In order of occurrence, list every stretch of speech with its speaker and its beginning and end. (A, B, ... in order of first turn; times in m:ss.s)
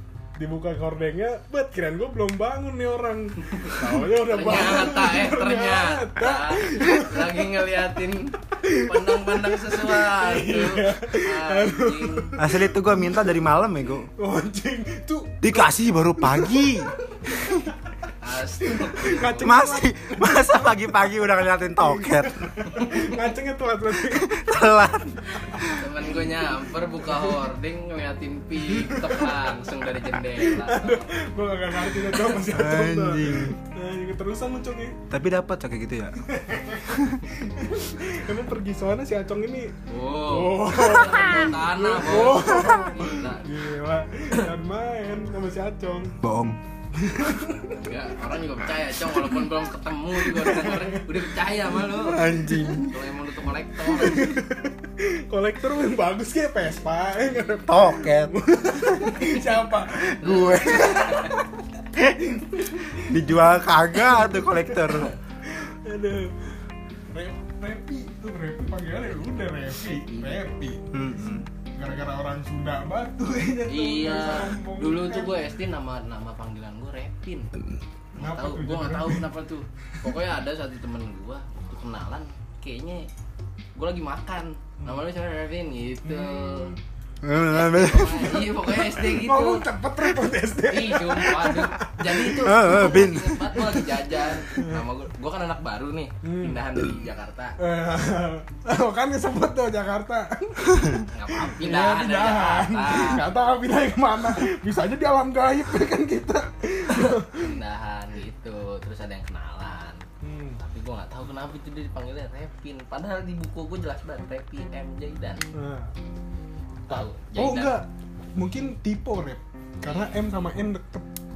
0:00.4-0:07.4 A
0:03.6-0:12.4 B
0:08.6-0:12.8 A
0:12.4-0:14.1 C
0:14.2-0:16.9 A
0:15.4-0:17.6 C
0:18.2-0:19.6 B
0:18.7-0:20.4 A
0:19.2-0:22.8 C
0:22.0-0:24.4 A
0:24.0-0:25.9 C
0:25.6-0:31.1 B
0:28.8-0:29.3 A
0:30.4-0:35.0 A
0:32.4-0:33.6 C
0:35.1-0:36.2 C
0:36.2-0:39.7 A
0:36.9-0:37.2 C
0:39.9-0:43.5 B
0:40.2-0:46.2 A
0:46.2-0:46.6 C
0:46.9-0:47.9 A
0:47.8-0:54.4 B
0:50.2-0:51.2 A
0:51.9-0:53.0 C
0:53.9-1:01.5 A
0:57.6-0:58.4 C
1:00.0-1:01.4 C
1:00.2-1:01.4 B
1:02.4-1:03.1 A
1:03.0-1:05.1 C
1:05.5-1:06.5 A
1:07.1-1:10.9 A
1:10.0-1:10.4 B
1:10.9-1:11.5 C
1:11.8-1:15.4 A
1:13.7-1:17.5 B
1:18.1-1:23.1 B
1:18.2-1:19.3 A
1:23.8-1:26.7 B
1:26.0-1:26.8 A
1:27.2-1:28.5 C
1:27.4-1:29.6 B
1:28.7-1:33.0 A
1:30.7-1:37.6 B
1:32.4-1:33.6 C
1:33.6-1:33.9 A
1:34.4-1:34.8 A
1:36.2-1:36.6 A
1:37.6-1:47.6 A
1:41.1-1:43.2 B
1:46.9-1:50.0 B
1:50.2-1:50.6 A
1:50.6-1:55.4 B
1:55.5-1:55.9 A
1:56.9-1:57.8 B
1:56.9-2:01.1 A
1:59.8-2:00.1 B